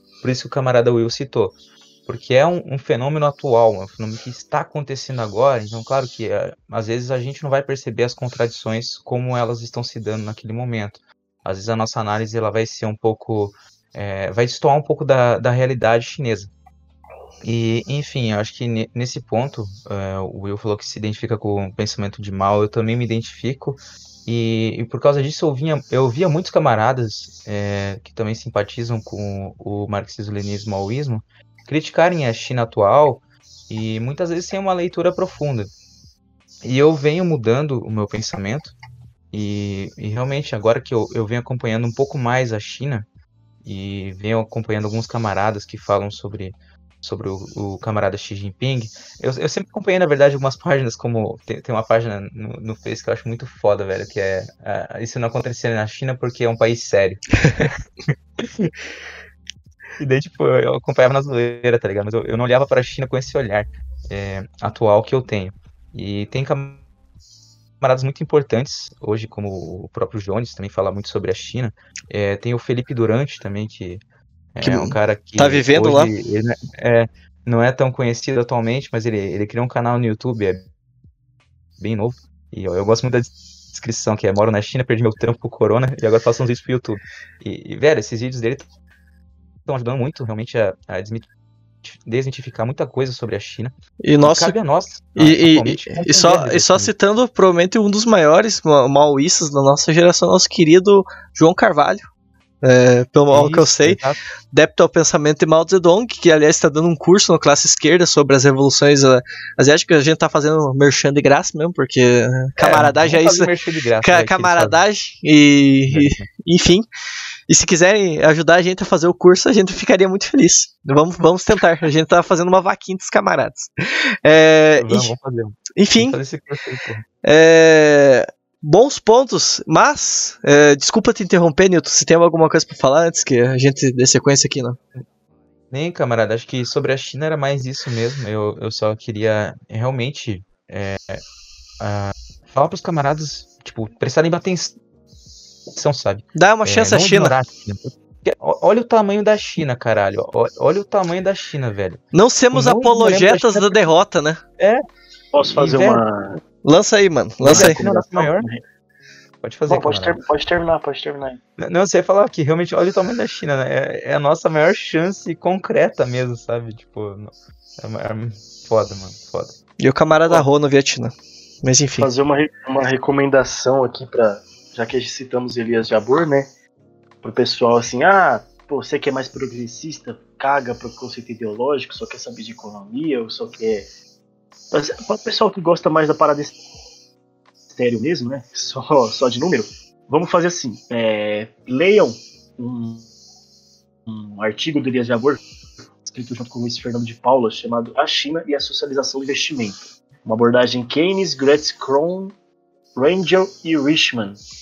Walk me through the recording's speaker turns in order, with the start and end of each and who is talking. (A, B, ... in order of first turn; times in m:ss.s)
0:00.2-0:16.5 A
0:17.4-0:35.7 A
0:36.6-0:38.8 A
0:39.3-0:43.1 A
0:43.6-0:58.7 A
0:57.4-0:57.7 B
1:00.0-1:06.8 A
1:07.8-1:14.0 A
1:14.5-1:20.7 A
1:14.6-1:16.1 B
1:21.8-1:28.7 A
1:29.7-1:31.3 A
1:31.8-1:36.9 A
1:34.0-1:34.6 B
1:35.1-1:42.0 B
1:42.6-1:44.0 B
1:43.3-1:44.2 A
1:44.5-1:53.5 B
1:52.6-1:54.8 A
1:54.0-1:56.8 B
1:55.9-1:56.3 A
1:57.5-2:03.7 B
2:04.2-2:05.1 B
2:04.8-2:07.0 A
2:05.8-2:06.2 B
2:07.2-2:14.8 B
2:15.7-2:21.2 A
2:21.8-2:24.8 A
2:25.7-2:33.9 A
2:26.4-2:27.4 B
2:32.1-2:34.4 B
2:34.6-2:34.8 A
2:35.3-2:36.4 C
2:35.4-2:36.0 A
2:36.6-2:37.8 B
2:37.4-2:38.6 C
2:37.4-2:38.5 A
2:39.4-2:40.2 A
2:39.7-2:41.4 C
2:41.6-2:49.6 A
2:49.8-2:52.1 B
2:52.0-2:56.5 C
2:57.2-3:03.9 C
3:04.7-3:06.5 C
3:07.7-3:13.1 C
3:14.1-3:15.4 C
3:16.0-3:22.4 C
3:23.0-3:24.4 C